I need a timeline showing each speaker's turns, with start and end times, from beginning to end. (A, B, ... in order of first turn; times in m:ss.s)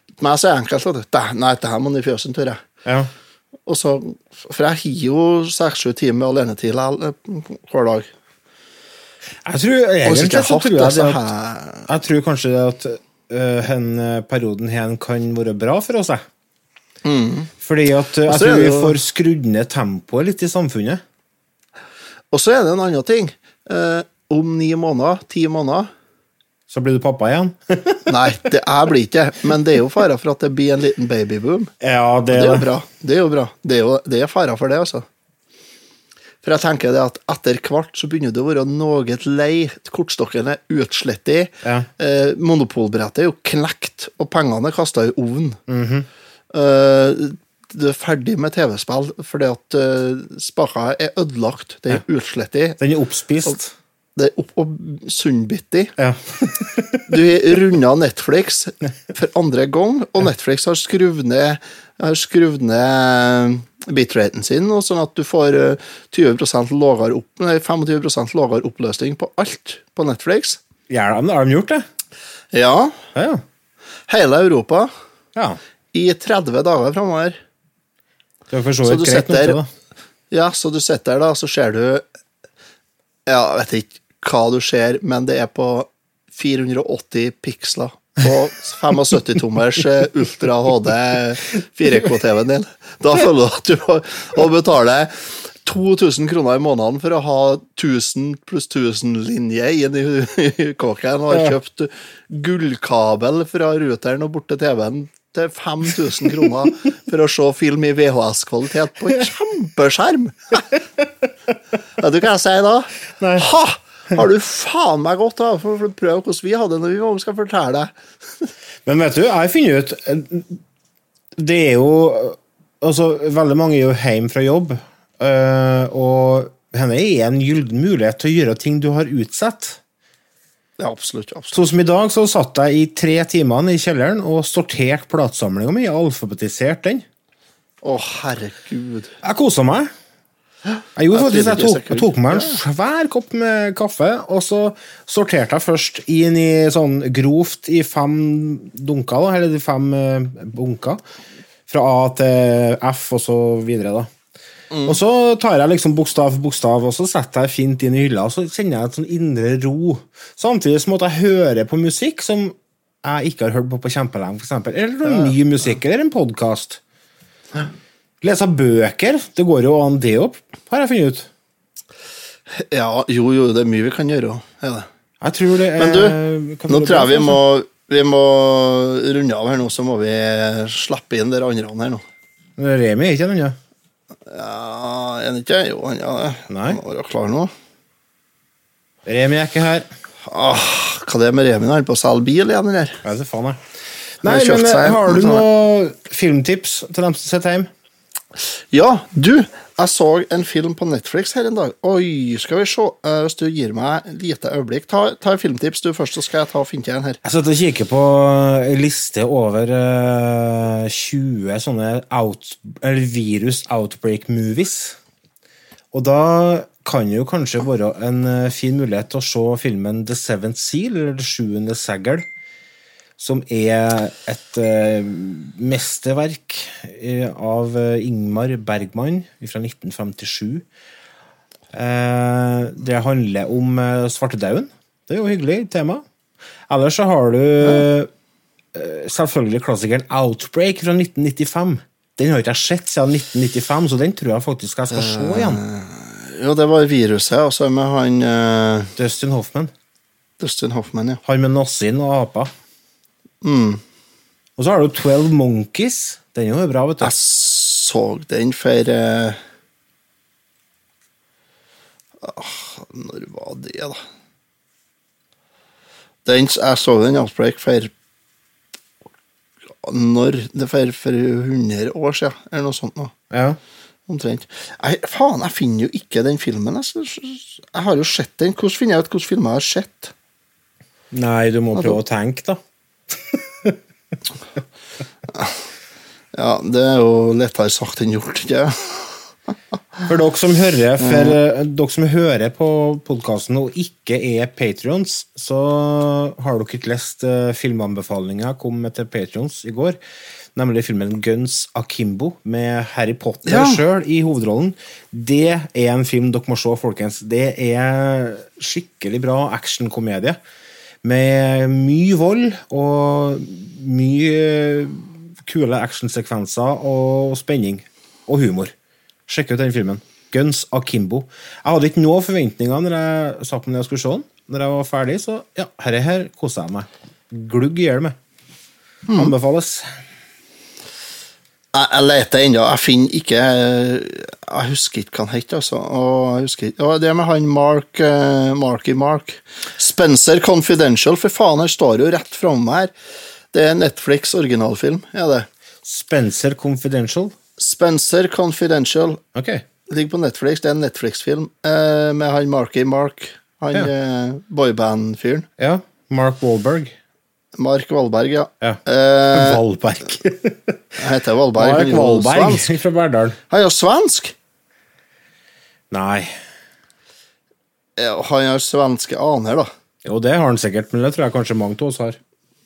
0:00.2-0:02.6 A
0:02.8-0:03.1 B
0:03.7-0:08.1 A
0:09.5-0:11.2 B
0:10.0-0:11.9 A
0:11.9-0:16.2 B
0:17.0-0:17.5 A
0:17.6-0:21.0 B
0:18.3-0:19.0 A
0:22.3-0:25.9 A
0:26.7-0:28.1 B
0:28.1-0:31.7 A
0:31.8-0:32.7 B
0:32.3-0:35.0 A
0:36.4-0:45.6 A
0:41.6-0:41.9 B
0:45.7-0:46.1 B
0:46.5-0:52.8 A
0:52.8-0:53.7 B
0:54.2-0:55.9 A
0:56.0-0:57.1 B
0:57.1-1:10.6 A
1:10.9-1:11.8 B
1:12.5-1:13.0 A
1:13.2-1:13.4 B
1:14.1-1:14.9 A
1:15.9-1:17.4 A
1:18.5-1:19.7 B
1:18.8-1:19.6 A
1:20.3-1:22.0 A
1:23.3-1:35.1 A
1:35.6-1:50.6 A
1:52.0-1:57.9 A
1:53.2-1:53.5 B
1:58.8-2:00.6 B
2:01.4-2:09.8 B
2:10.8-2:11.6 A
2:11.5-2:17.0 B
2:17.8-2:19.1 A
2:19.2-2:19.9 B
2:21.0-2:31.0 B
2:21.1-2:22.6 A
2:31.7-2:34.1 B
2:34.7-2:35.0 A
2:34.9-2:46.8 B
2:45.0-2:45.4 A
2:48.2-2:51.3 B
2:52.7-2:54.9 A
2:55.2-2:57.4 B
2:55.8-2:56.2 A
2:56.7-3:02.0 A
3:02.6-3:03.6 B
3:04.3-3:07.5 A
3:06.5-3:06.8 B
3:09.1-3:09.9 B
3:10.3-3:13.0 A
3:13.0-3:13.6 B
3:14.2-3:15.4 A
3:14.2-3:17.7 B
3:18.7-3:27.2 A
3:27.2-3:35.0 B
3:35.9-3:42.2 B
3:43.2-3:50.6 B
3:51.7-3:56.0 B
3:56.7-3:58.1 B
3:58.7-4:05.6 B
4:04.9-4:08.9 A
4:09.0-4:09.7 B
4:10.4-4:11.2 A
4:11.2-4:12.5 B
4:13.4-4:13.8 A
4:14.6-4:17.1 B
4:17.0-4:19.4 A
4:22.2-4:24.0 A
4:26.2-4:27.9 A
4:29.8-4:33.1 A
4:33.3-4:33.6 B
4:34.1-4:40.1 A
4:41.1-4:42.6 B
4:43.3-4:43.8 B
4:46.3-4:49.2 A
4:50.1-5:00.0 B
4:51.0-4:51.4 A
5:00.6-5:10.4 B
5:03.4-5:03.8 A
5:11.0-5:18.7 B
5:19.3-5:28.2 B
5:29.1-5:29.3 A
5:29.1-5:29.9 B
5:31.7-5:42.9 A
5:43.5-5:45.5 A
5:45.8-5:47.3 B
5:47.6-5:49.2 A
5:49.4-5:49.6 B
5:49.9-5:55.5 A
5:55.6-5:56.9 B
5:57.6-5:59.6 A
5:59.3-6:00.8 B
6:01.0-6:02.8 A
6:01.6-6:03.4 B
6:03.5-6:04.3 A
6:05.9-6:06.3 B
6:08.0-6:09.7 A
6:10.0-6:12.2 B